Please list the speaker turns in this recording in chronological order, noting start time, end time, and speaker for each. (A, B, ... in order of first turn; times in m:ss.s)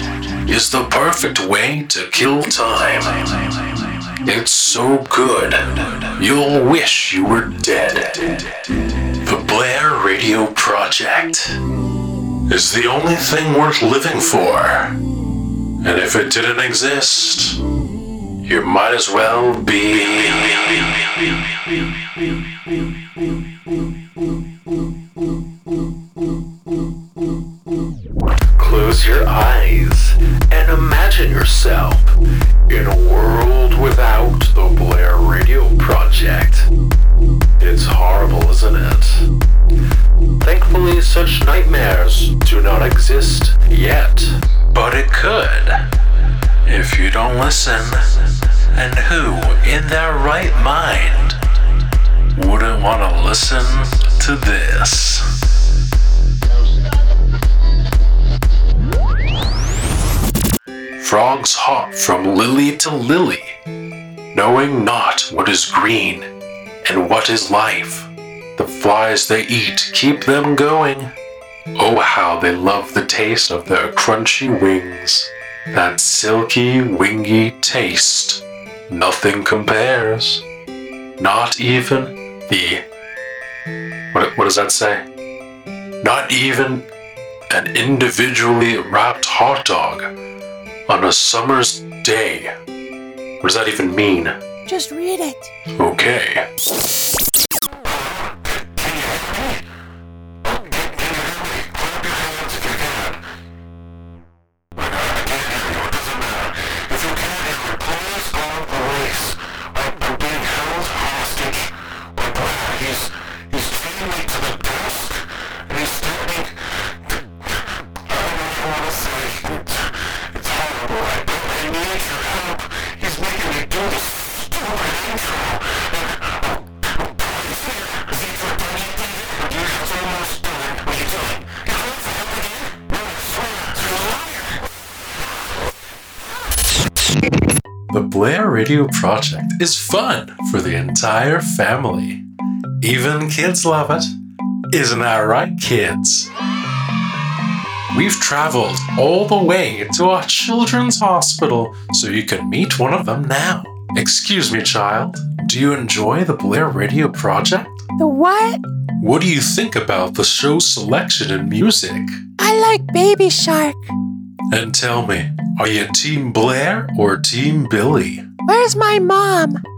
0:00.4-0:03.3 A
0:04.2-0:08.4 A
0:09.2-0:11.6 A
0:12.5-0:15.0 A
0:15.8-0:17.6 A
0:18.4-0:21.1 A
0:28.6-0:32.1 A
0:32.7-0:36.7 A
0:37.6-0:39.3 A
0:40.4-0:45.9 A
0:46.6-0:48.1 A
0:48.7-0:51.4 A
0:52.4-0:55.3 A
1:01.0-1:03.5 A
1:04.3-1:06.2 A
1:06.8-1:11.1 A
1:11.8-1:20.4 A
1:21.2-1:22.8 A
1:24.1-1:25.0 A
1:26.0-1:26.8 A
1:27.5-1:30.1 A
1:30.9-1:32.5 A
1:33.4-1:34.3 A
1:34.6-1:35.5 B
1:35.8-1:36.4 A
2:17.9-2:22.2 A
2:22.8-2:24.1 A
2:24.7-2:26.3 A
2:27.9-2:37.9 A
2:38.0-2:38.6 B
2:39.0-2:42.2 A
2:42.4-2:43.9 B
2:44.5-2:48.2 A
2:48.4-2:49.6 B